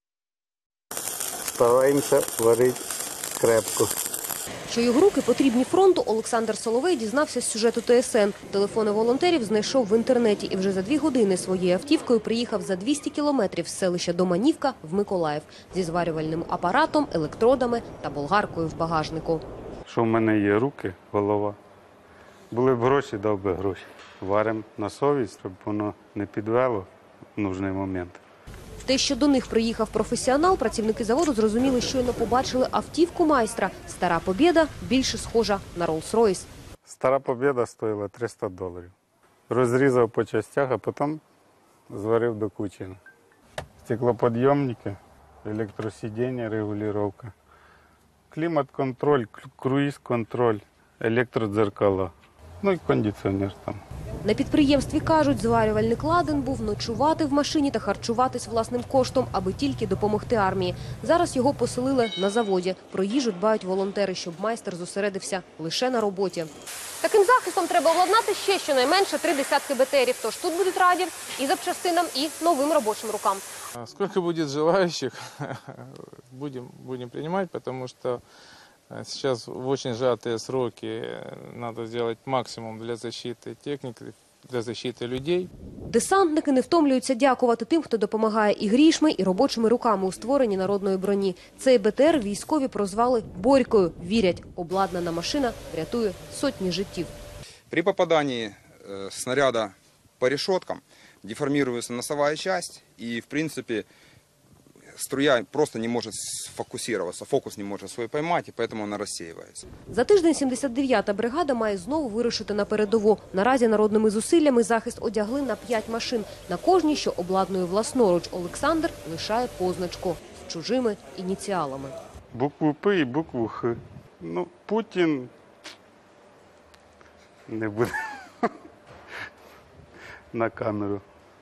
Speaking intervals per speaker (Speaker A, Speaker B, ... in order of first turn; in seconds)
Speaker A: 1.5-2.8, 3.4-3.9, 19.9-21.6, 22.5-28.2, 36.8-38.9, 39.5-41.2, 41.9-43.0, 43.8-47.3, 48.3-53.8, 122.3-125.3, 127.5-128.5, 130.3-131.0
Speaker B: 4.7-19.4, 28.8-36.5, 54.2-73.4, 85.9-97.1, 109.9-122.0
Speaker C: 73.8-78.2, 78.9-85.5
Speaker D: 97.7-103.9, 104.9-109.7